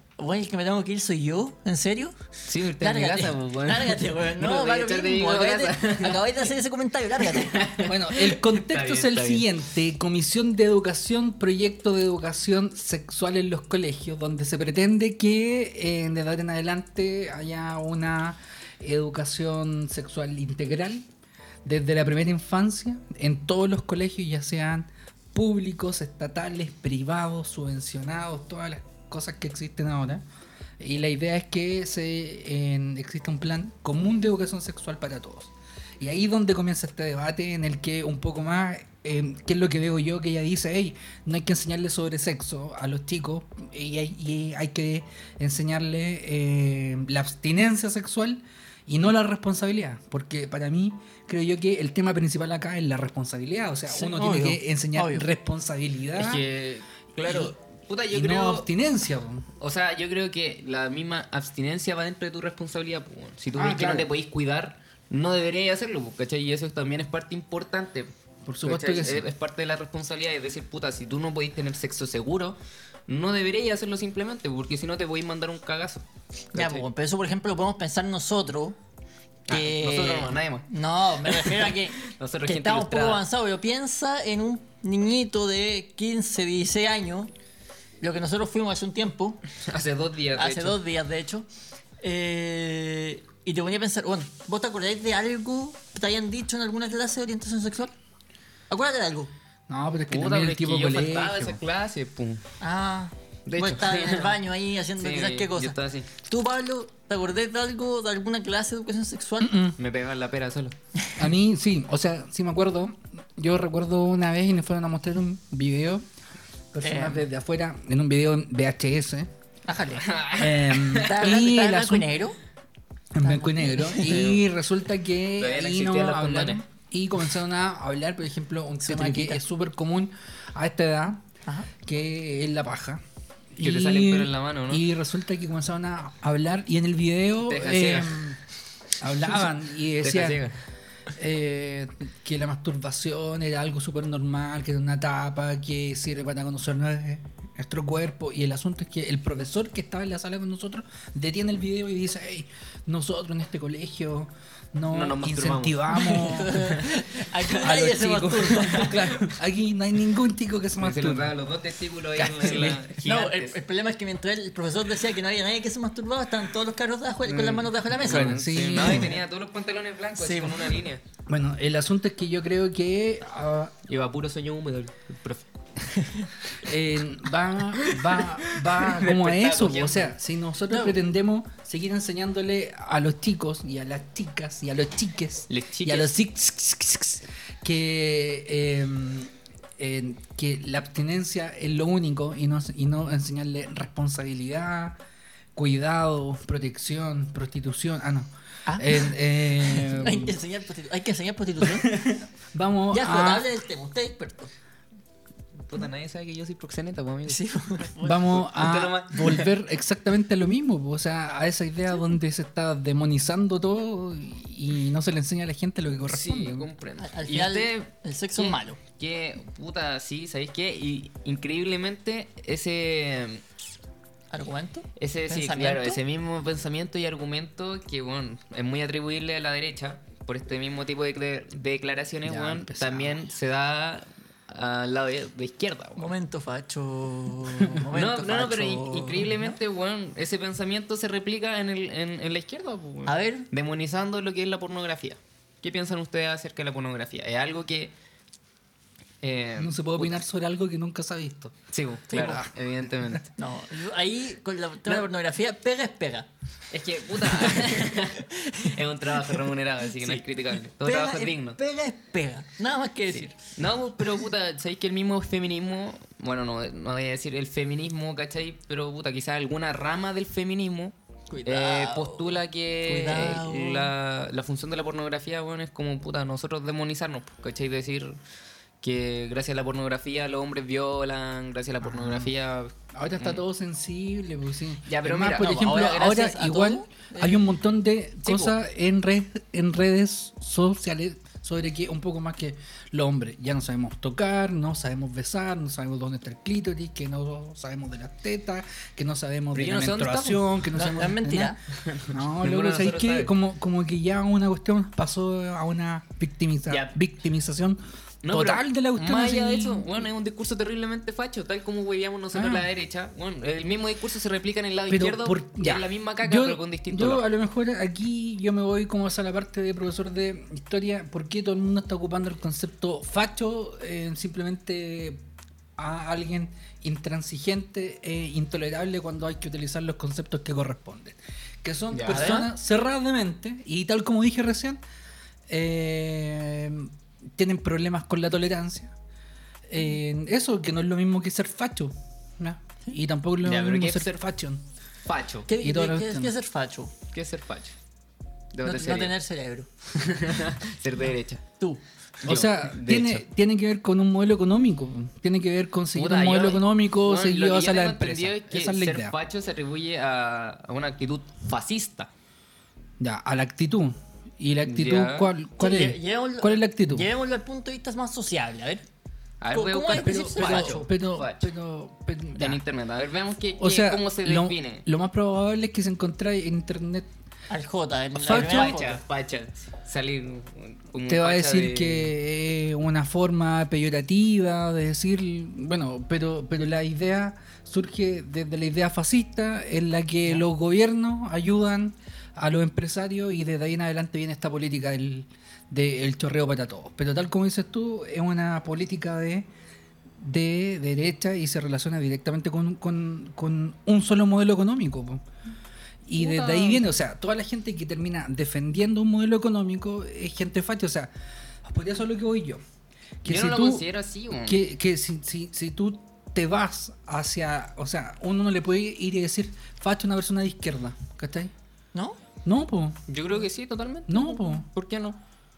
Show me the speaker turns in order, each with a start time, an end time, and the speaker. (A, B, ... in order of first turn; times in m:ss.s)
0:00.2-0:02.2 A
0:02.4-0:06.4 B
0:02.8-0:07.7 A
0:07.2-0:09.5 B
0:07.8-0:21.1 C
0:21.6-0:30.2 C
0:30.8-0:56.4 C
0:53.9-0:55.2 A
0:56.2-0:58.7 B
0:57.2-0:57.5 C
0:58.1-0:59.4 C
0:59.6-1:08.1 B
1:03.5-1:04.1 C
1:08.4-1:09.3 C
1:08.6-1:16.8 B
1:16.5-1:18.8 A
1:19.5-1:20.7 B
1:19.5-1:27.3 A
1:21.2-1:23.2 B
1:28.0-1:29.4 A
1:29.6-1:30.8 B
1:30.4-1:31.5 A
1:32.0-1:37.9 A
1:38.7-1:39.3 A
1:39.7-1:41.6 C
1:40.1-1:42.4 B
1:42.6-1:49.5 A
1:43.4-1:44.4 B
1:45.0-1:46.1 B
1:49.4-1:49.8 C
1:49.8-1:50.7 B
1:51.2-1:56.0 C
1:56.7-1:59.3 C
1:56.8-1:57.2 A
1:59.7-2:00.1 A
2:00.0-2:01.3 B
2:00.3-2:02.1 C
2:00.9-2:02.4 A
2:03.1-2:11.2 C
2:03.2-2:04.2 A
2:04.0-2:04.4 B
2:05.4-2:06.6 B
2:08.8-2:09.4 A
2:11.8-2:13.0 C
2:13.5-2:18.4 C
2:13.6-2:14.8 B
2:17.4-2:18.2 B
2:19.0-2:20.4 C
2:20.0-2:20.6 B
2:21.2-2:36.7 C
2:34.9-2:36.0 B
2:35.9-2:39.0 A
2:37.4-2:41.3 C
2:40.8-2:43.6 B
2:42.2-2:42.9 C
2:43.0-2:49.1 A
2:47.2-2:51.0 B
2:48.0-2:49.2 C
2:50.2-2:50.8 A
2:51.3-2:53.7 C
2:53.8-2:55.4 B
2:56.0-2:56.3 A
2:56.6-3:15.0 C
2:57.7-3:00.1 B
3:05.5-3:06.1 B
3:15.5-3:20.4 C
3:18.7-3:21.9 A
3:21.8-3:23.5 C
3:22.9-3:24.5 A
3:25.6-3:27.4 B
3:27.2-3:28.4 A
3:28.0-3:36.7 C
3:28.3-3:29.5 B
3:36.1-3:43.4 B
3:37.0-3:38.8 A
3:44.3-3:46.0 A
3:45.0-3:56.1 B
3:52.2-3:53.2 C
3:56.0-3:59.6 A
3:57.9-4:07.9 B
4:03.0-4:03.5 A
4:09.2-4:10.2 B
4:09.6-4:11.6 C
4:11.7-4:13.3 B
4:12.1-4:12.4 A
4:12.1-4:12.5 C
4:13.4-4:16.3 A
4:16.7-4:21.6 B
4:17.4-4:19.4 A
4:20.8-4:23.3 A
4:23.1-4:30.9 B
4:31.3-4:33.9 A
4:31.4-4:38.2 B
4:38.8-4:43.4 B
4:41.8-4:42.3 C
4:42.9-5:01.6 C
4:44.9-4:45.9 B
4:45.4-4:47.4 A
4:48.2-4:48.5 B
4:59.5-5:00.4 B
5:00.7-5:01.6 A
5:01.8-5:03.3 B
5:02.1-5:09.9 C
5:06.7-5:07.0 B
5:08.2-5:17.2 B
5:12.3-5:12.7 C
5:14.9-5:25.2 C
5:25.8-5:34.8 C
5:31.9-5:32.4 B
5:32.1-5:32.5 A
5:35.5-5:38.9 C
5:39.7-5:44.6 C
5:43.4-5:44.2 B
5:45.0-5:45.5 B
5:45.5-5:46.9 A
5:45.6-5:46.3 C
5:47.1-5:47.7 B
5:48.5-5:49.1 B
5:48.6-5:49.7 A
5:49.9-5:51.4 B
5:52.2-5:53.2 B
5:52.2-5:59.1 C
5:55.9-6:02.1 B
6:03.0-6:07.1 C
6:04.6-6:05.3 B
6:05.6-6:08.8 A
6:09.4-6:11.5 B
6:09.5-6:10.8 A
6:09.9-6:12.6 C
6:12.3-6:14.8 B
6:13.6-6:17.1 C
6:17.5-6:19.0 A
6:18.2-6:18.8 C
6:18.2-6:22.1 B
6:21.1-6:39.5 C
6:40.2-6:45.2 C
6:46.0-6:51.1 C
6:46.2-6:46.8 B
6:51.6-6:52.6 C
6:53.2-6:53.8 C
6:53.2-6:54.6 B
6:54.4-7:01.5 C
7:02.4-7:03.0 C
7:03.1-7:05.2 B
7:04.1-7:04.7 C